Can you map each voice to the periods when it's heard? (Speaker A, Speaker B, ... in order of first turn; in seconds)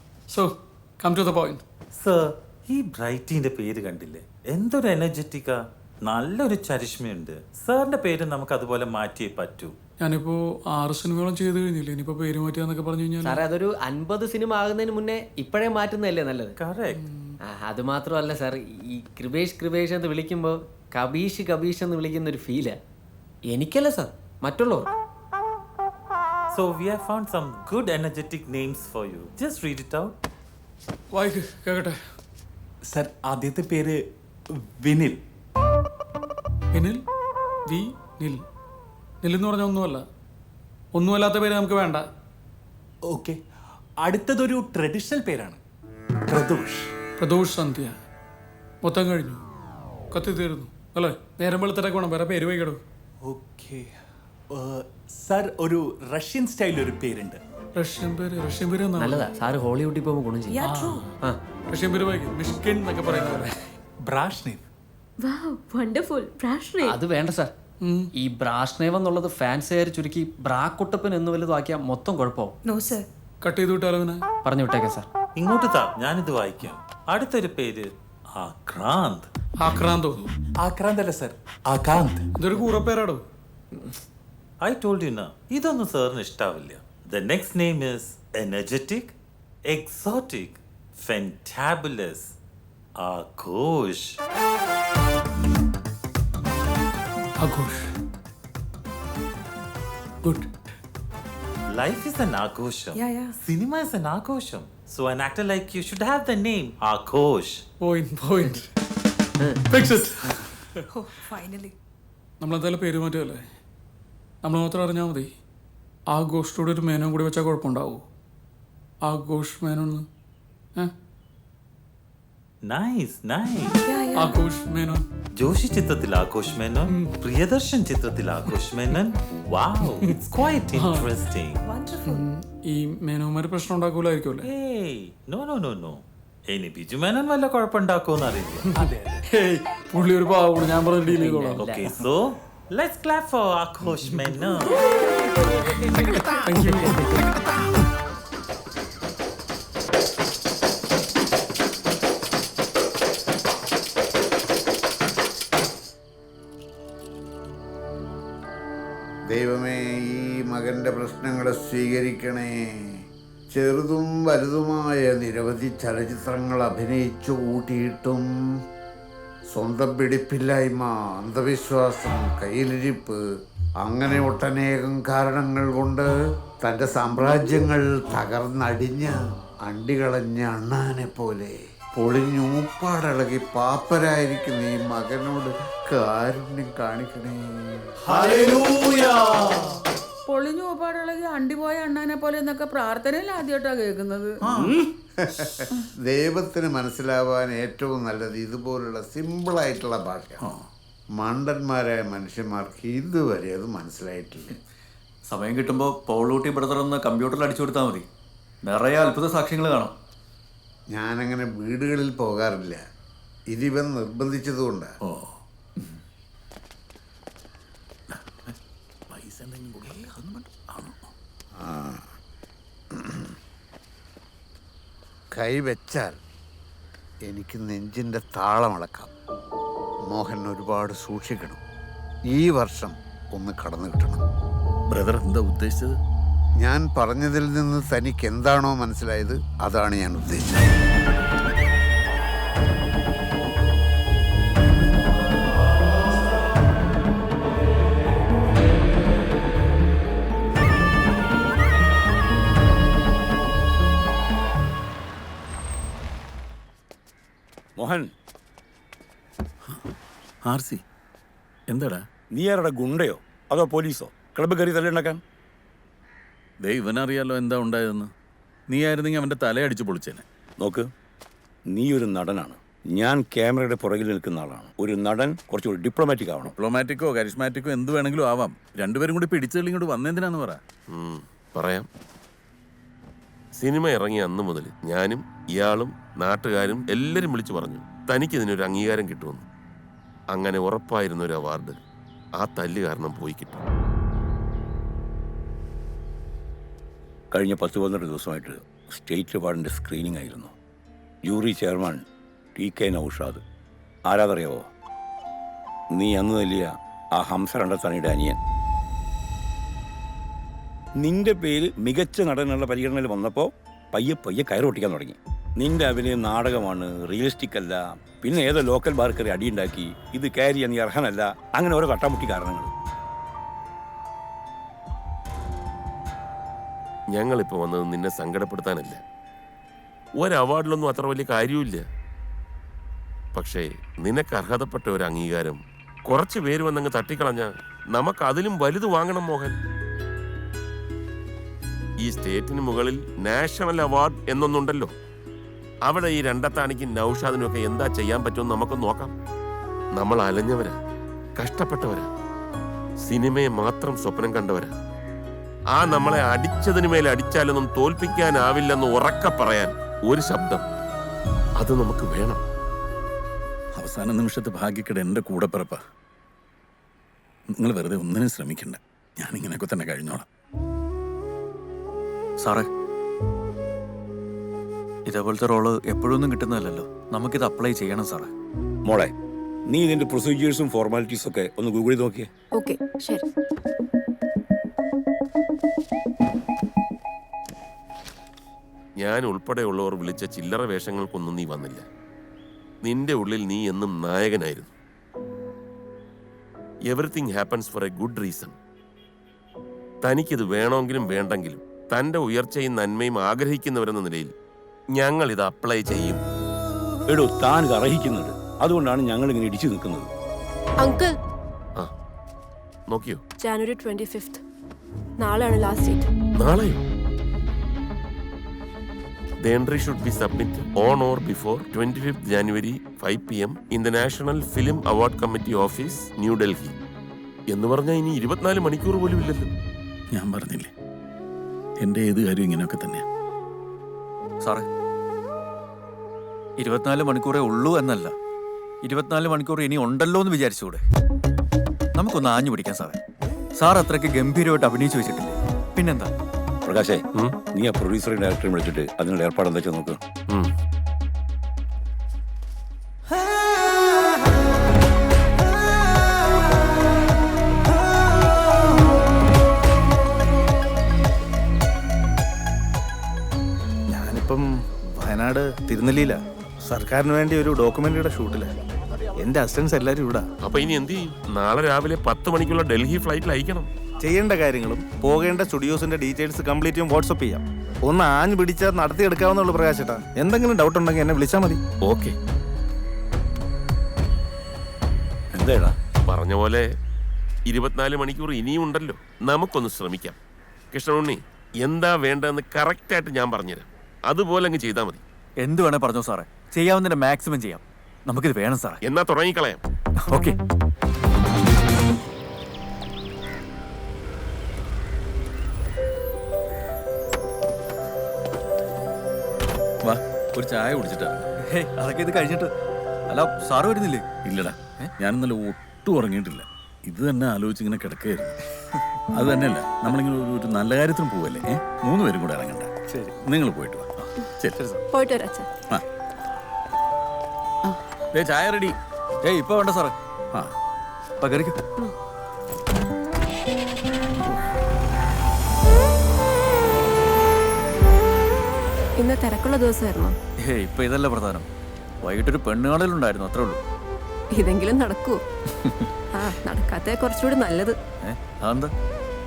Speaker A: 0.3-1.6, 10.0-13.4, 16.9-17.4, 31.1-32.0, 36.7-37.0, 37.7-38.4, 39.2-40.0, 40.9-42.1, 47.2-48.0, 48.8-49.4, 50.1-52.8, 57.8-59.3, 60.6-61.0, 61.7-63.5, 67.8-68.1, 73.4-74.2, 79.6-80.2, 82.4-83.2, 97.4-97.9, 107.8-108.7, 109.7-111.0, 112.4-113.4, 114.4-115.3, 116.1-118.0, 119.0-120.1, 124.1-125.0, 130.7-131.1, 132.0-134.5, 138.8-141.7, 146.4-147.2
Speaker B: 2.0-9.7, 16.6-17.0, 26.5-30.2, 75.4-79.3, 84.6-89.2, 89.7-92.3, 93.0-94.2, 101.7-107.6, 122.7-123.8, 125.4-131.7, 134.5-138.7, 141.6-144.8
Speaker C: 13.2-16.5, 17.4-22.8, 23.4-24.9, 59.0-61.3, 66.8-67.5, 68.2-72.5, 74.5-75.1, 141.2-141.8
Speaker D: 32.9-33.9, 34.8-35.2, 43.1-43.4, 44.0-45.6, 46.3-46.9, 53.3-53.9, 55.2-57.4, 64.1-64.6
Speaker E: 159.3-163.0, 163.5-168.3, 169.5-173.2, 173.8-176.1, 176.6-187.8, 195.3-200.4, 201.2-204.5, 210.9-212.8, 213.5-214.9, 221.6-222.1, 222.9-223.3, 225.3-226.2, 227.3-229.1, 230.1-231.6, 232.3-234.2, 236.6-240.7
Speaker F: 188.3-188.6, 190.2-194.5
Speaker G: 205.2-208.1, 208.6-209.9, 372.4-372.7, 375.1-378.3, 434.4-434.7, 436.6-438.1, 438.8-440.8, 441.9-443.0, 443.6-446.1, 495.4-498.8, 500.1-500.4, 511.5-512.5, 513.1-514.1, 524.0-524.8, 529.2-529.9, 531.2-531.6, 540.5-541.5, 542.0-543.6, 548.0-548.7
Speaker H: 215.0-215.3, 219.1-221.1, 234.9-236.0, 260.4-260.8, 261.7-262.0, 266.6-268.1, 268.7-270.2, 276.4-280.6, 363.8-365.8, 367.5-370.2, 430.1-430.7, 431.8-433.0, 509.8-511.3, 514.2-518.3, 519.1-522.7, 523.2-523.9, 528.1-528.8
Speaker I: 257.8-258.1, 262.3-265.2, 270.6-270.9, 271.7-276.5, 297.3-300.5, 301.2-302.0, 302.6-303.4, 304.1-304.7, 305.9-308.4, 311.0-322.7, 378.9-379.1, 379.7-382.3, 407.1-410.1, 446.6-447.0, 447.5-450.0, 485.3-485.7
Speaker J: 280.9-281.9, 283.6-289.4, 290.3-291.8, 292.4-293.6, 327.1-329.0, 330.2-331.8, 333.3-339.6, 342.0-344.9, 345.9-349.1, 349.9-350.8, 351.4-352.1, 353.0-354.7, 355.7-360.6, 361.6-362.4, 389.0-391.8, 392.8-394.7, 396.9-398.5, 400.0-404.3, 404.9-406.2, 412.9-413.2, 416.4-416.8, 419.4-426.7, 427.5-429.5, 470.4-473.7, 481.8-482.1, 486.1-486.7, 487.5-490.2, 490.7-495.0, 498.8-499.6
Speaker K: 382.5-383.2, 410.8-411.1, 413.4-414.4, 415.2-416.1, 524.9-525.5, 539.0-540.2, 544.3-545.2, 546.1-547.8
Speaker L: 463.9-464.4, 465.0-466.1, 466.7-468.4, 469.2-470.2, 474.1-477.3, 477.9-481.5